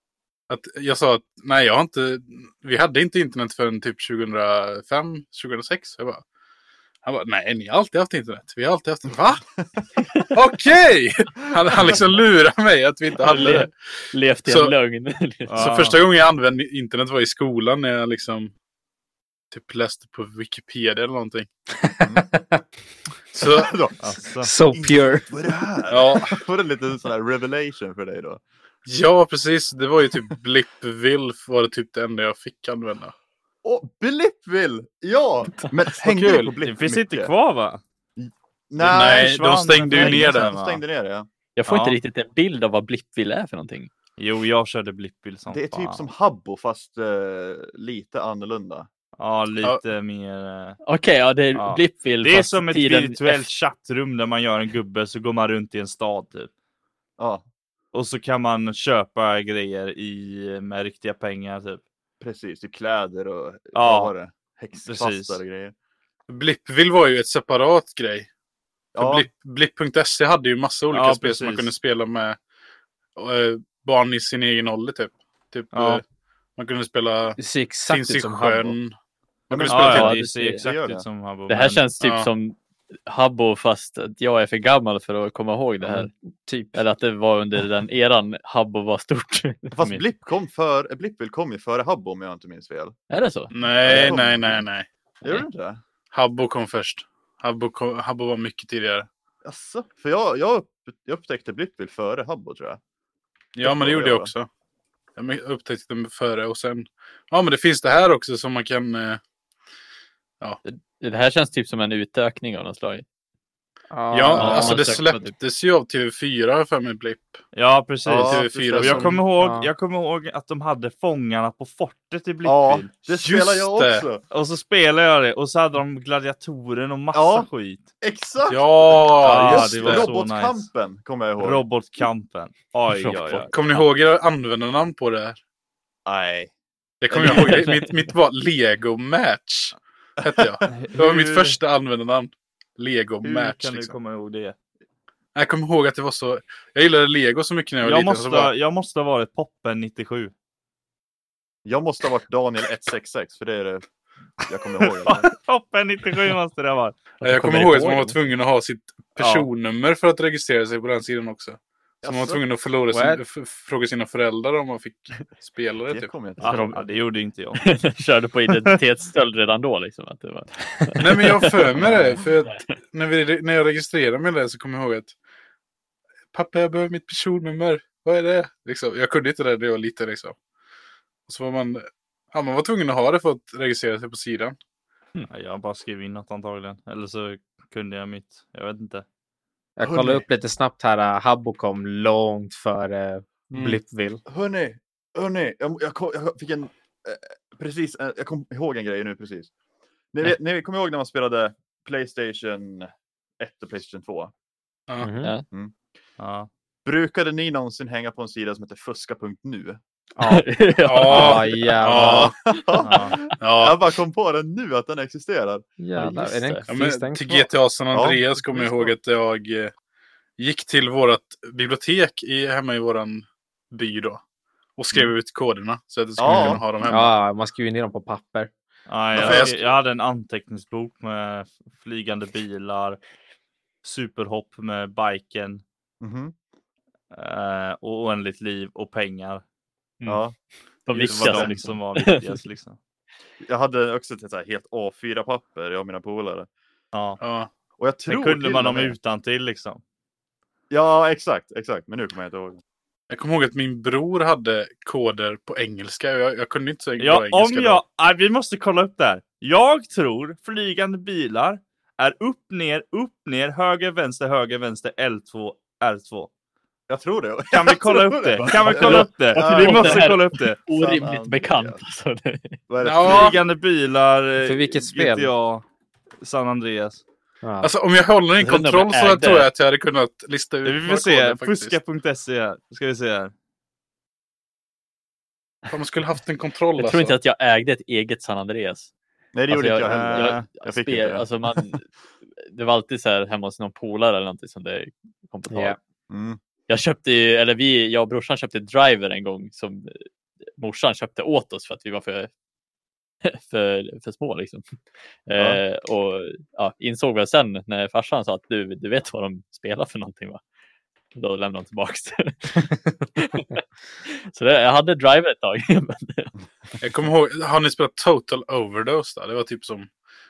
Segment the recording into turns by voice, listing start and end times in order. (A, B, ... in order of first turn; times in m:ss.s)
0:00.5-0:06.2 A
0:07.0-0:09.4 A
0:10.3-0:13.7 A
0:13.2-0:15.6 B
0:14.5-0:14.7 A
0:15.5-0:16.0 C
0:15.6-0:18.5 A
0:19.5-0:21.5 A
0:21.8-0:22.4 D
0:22.0-0:22.3 E
0:23.3-0:23.8 A
0:23.4-0:24.0 E
0:24.0-0:24.5 C
0:24.4-0:25.3 D
0:24.7-0:28.4 E
0:25.9-0:26.4 A
0:28.8-0:33.1 A
0:33.6-0:37.3 E
0:35.9-0:36.5 A
0:36.6-0:37.8 C
0:38.2-0:39.3 E
0:38.8-0:40.8 C
0:38.9-0:40.5 A
0:39.8-0:41.3 E
0:41.6-0:43.9 B
0:41.6-0:42.0 C
0:44.2-0:46.0 C
0:45.5-0:48.9 E
0:49.2-0:50.8 C
0:50.8-0:53.5 B
0:51.5-0:56.5 C
0:57.2-0:57.4 E
0:57.9-1:01.8 C
1:02.2-1:05.7 E
1:03.7-1:04.1 C
1:04.8-1:05.4 C
1:06.3-1:08.3 A
1:09.0-1:09.3 E
1:09.0-1:12.4 A
1:10.9-1:11.7 C
1:13.2-1:16.0 A
1:15.7-1:16.0 C
1:16.6-1:18.9 A
1:17.4-1:18.7 D
1:19.5-1:20.2 A
1:19.5-1:21.0 E
1:19.6-1:21.9 C
1:19.9-1:20.7 B
1:21.5-1:26.1 B
1:22.0-1:22.3 A
1:25.8-1:26.8 D
1:26.7-1:30.0 B
1:29.7-1:32.9 E
1:33.1-1:34.2 B
1:33.5-1:34.9 A
1:33.8-1:34.6 E
1:35.2-1:35.8 E
1:36.1-1:39.1 A
1:39.4-1:42.8 E
1:43.6-1:44.5 A
1:43.6-1:44.3 E
1:45.2-1:49.2 A
1:50.7-1:53.0 B
1:53.9-1:54.9 D
1:54.1-1:57.4 A
1:54.4-1:55.4 B
1:57.5-2:02.9 C
1:58.1-1:59.2 E
1:58.1-1:59.2 A
1:59.4-1:59.7 D
2:02.4-2:04.2 E
2:03.1-2:04.0 A
2:04.3-2:07.9 C
2:07.1-2:07.5 E
2:08.0-2:11.6 E
2:08.5-2:10.1 A
2:09.2-2:10.7 C
2:11.4-2:13.5 C
2:12.9-2:13.5 B
2:13.5-2:15.4 A
2:16.1-2:16.5 E
2:17.0-2:24.0 A
2:17.1-2:17.6 E
2:20.2-2:20.7 E
2:20.7-2:21.6 C
2:23.2-2:24.6 C
2:25.4-2:28.5 A
2:27.8-2:30.3 C
2:31.6-2:33.8 E
2:34.4-2:35.3 E
2:35.0-2:37.0 C
2:37.2-2:46.1 A
2:37.2-2:37.8 B
2:39.2-2:39.5 C
2:42.0-2:42.4 E
2:42.9-2:43.2 D
2:45.9-2:46.8 E
2:46.4-2:47.6 C
2:46.5-2:46.8 B
2:47.6-2:52.8 B
2:51.0-2:55.2 A
2:56.3-3:00.4 A
3:01.3-3:04.6 A
3:05.3-3:09.0 C
3:09.8-3:14.2 D
3:09.8-3:10.2 E
3:13.5-3:13.8 A
3:14.3-3:19.5 E
3:20.1-3:24.3 E
3:25.0-3:25.3 D
3:26.2-3:26.5 C
3:26.8-3:29.8 E
3:30.2-3:30.5 D
3:30.2-3:32.0 B
3:30.8-3:32.4 A
3:31.0-3:32.3 D
3:32.0-3:35.7 E
3:32.8-3:33.2 C
3:33.4-3:33.8 A
3:35.8-3:37.5 D
3:36.0-3:36.7 B
3:36.7-3:39.7 A
3:37.9-3:38.2 E
3:40.4-3:44.2 A
3:44.8-3:47.2 A
3:46.2-3:46.6 E
3:46.3-3:48.5 D
3:48.9-3:53.0 C
3:49.2-3:49.6 E
3:49.2-3:49.6 A
3:53.8-3:55.6 C
3:56.0-3:56.3 E
3:57.1-3:59.4 C
4:00.1-4:00.4 E
4:00.9-4:02.4 B
4:01.0-4:01.6 E
4:01.0-4:02.8 C
4:03.4-4:06.5 E
4:06.9-4:07.2 C
4:07.2-4:07.5 A
4:07.8-4:09.0 E
4:08.1-4:09.8 C
4:10.7-4:12.6 E
4:13.1-4:17.8 A
4:17.0-4:26.3 C
4:26.9-4:31.8 E
4:27.5-4:30.6 C
4:28.4-4:32.6 B
4:32.7-4:33.4 E
4:32.8-4:33.4 A
4:33.0-4:35.6 C
4:34.4-4:35.3 D
4:36.2-4:37.0 C
4:37.4-4:37.7 D
4:37.6-4:41.8 A
4:38.4-4:39.5 B
4:40.6-4:43.3 C
4:45.7-4:47.2 A
4:46.8-4:48.9 B
4:49.4-4:51.3 E
4:49.5-4:51.9 B
4:49.9-4:50.4 C
4:52.4-4:55.8 B
4:55.5-4:55.8 D
4:56.1-4:56.4 E
4:56.7-5:00.1 B
5:00.6-5:02.3 B
5:03.2-5:04.6 B
5:05.3-5:10.4 B
5:11.1-5:16.4 B
5:16.8-5:19.9 A